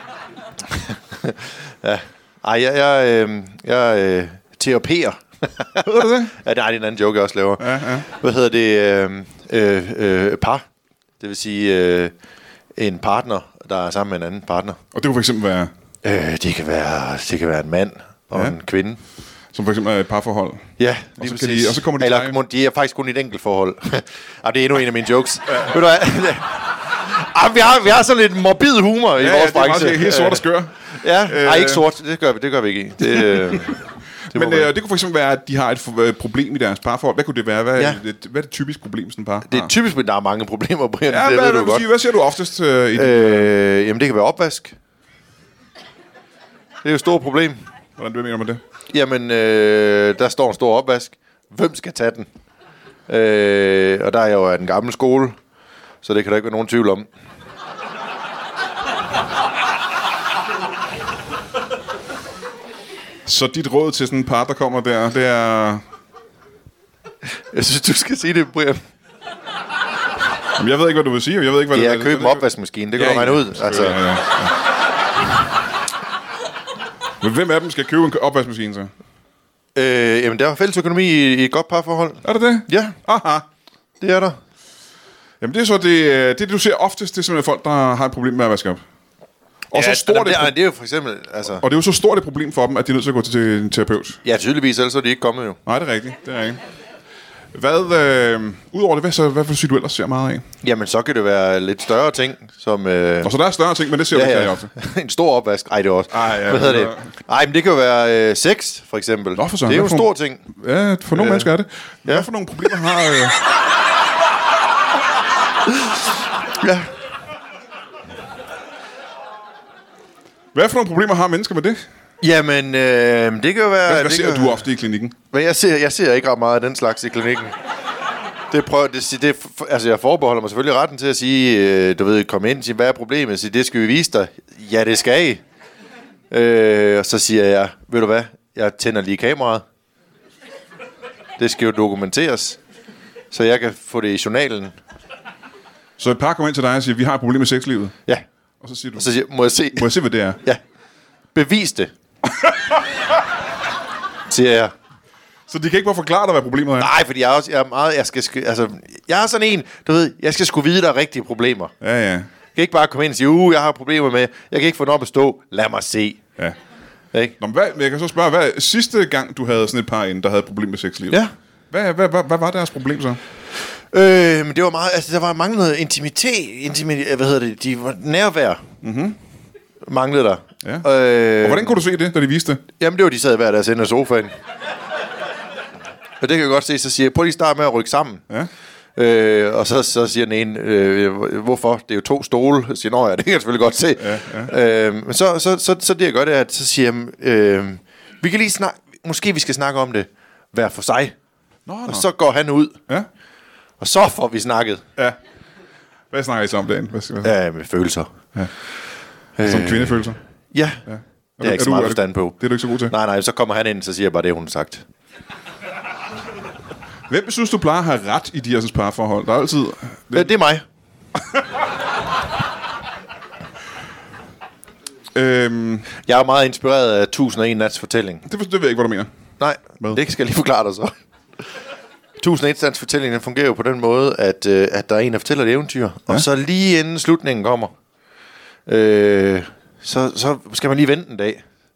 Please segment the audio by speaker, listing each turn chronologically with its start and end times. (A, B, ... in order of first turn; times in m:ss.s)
0:00.6-0:10.6 A
0:05.8-0:06.3 B
0:07.6-0:08.1 B
0:11.2-0:12.1 A
0:12.8-0:14.8 A
0:14.9-0:15.7 B
0:16.0-0:19.0 A
0:19.5-0:20.7 B
0:20.8-0:33.8 A
0:21.2-0:22.4 B
0:29.2-0:31.8 B
0:33.2-0:33.6 B
0:34.3-0:39.7 B
0:34.3-0:34.7 A
0:39.5-0:41.9 A
0:41.1-0:43.5 B
0:43.0-0:44.8 A
0:46.8-0:47.6 A
0:48.0-0:48.6 B
0:48.9-0:52.3 A
0:53.1-0:55.4 A
0:56.0-0:57.1 A
1:03.3-1:05.8 B
1:07.3-1:08.8 A
1:10.6-1:12.4 B
1:11.7-1:14.0 A
1:13.0-1:14.6 B
1:17.2-1:18.9 B
1:19.8-1:23.0 A
1:22.2-1:23.4 B
1:24.0-1:24.4 A
1:25.4-1:28.8 B
1:29.7-1:30.5 B
1:29.7-1:31.6 A
1:31.6-1:34.2 B
1:34.2-1:35.6 A
1:35.7-1:36.6 B
1:37.5-1:40.4 B
1:40.6-1:43.3 A
1:43.2-1:44.7 B
1:44.1-1:50.4 A
1:46.1-1:47.1 B
1:49.4-1:53.4 B
1:51.1-1:51.5 A
1:56.5-1:56.9 A
2:00.6-2:01.8 B
2:02.2-2:04.7 A
2:03.8-2:05.2 B
2:05.3-2:07.6 A
2:08.5-2:15.4 A
2:16.3-2:19.6 A
2:21.4-2:22.6 A
2:23.3-2:24.8 A
2:26.0-2:28.0 B
2:28.6-2:29.1 B
2:29.0-2:29.9 A
2:29.7-2:30.4 B
2:31.3-2:31.9 A
2:34.3-2:34.7 A
2:35.5-2:36.9 B
2:36.8-2:41.7 A
2:41.8-2:42.3 B
2:42.6-2:46.2 A
2:47.4-2:51.2 B
2:51.7-2:53.2 B
2:53.9-2:58.7 A
2:58.8-2:59.2 B
2:59.9-3:01.8 A
3:00.6-3:02.6 B
3:02.8-3:04.3 A
3:06.2-3:08.2 A
3:09.0-3:21.2 A
3:14.0-3:14.5 B
3:21.7-3:22.1 B
3:21.9-3:22.8 A
3:23.8-3:24.8 A
3:26.1-3:27.3 B
3:27.2-3:28.1 A
3:29.4-3:30.8 A
3:29.4-3:30.2 B
3:30.9-3:32.9 B
3:31.4-3:32.4 A
3:32.9-3:34.8 A
3:37.1-3:40.3 B
3:40.1-3:40.6 A
3:45.2-3:45.9 B
3:46.1-3:48.2 A
3:48.3-3:49.1 B
3:49.4-3:50.9 A
3:52.2-3:57.7 A
3:58.7-4:01.4 A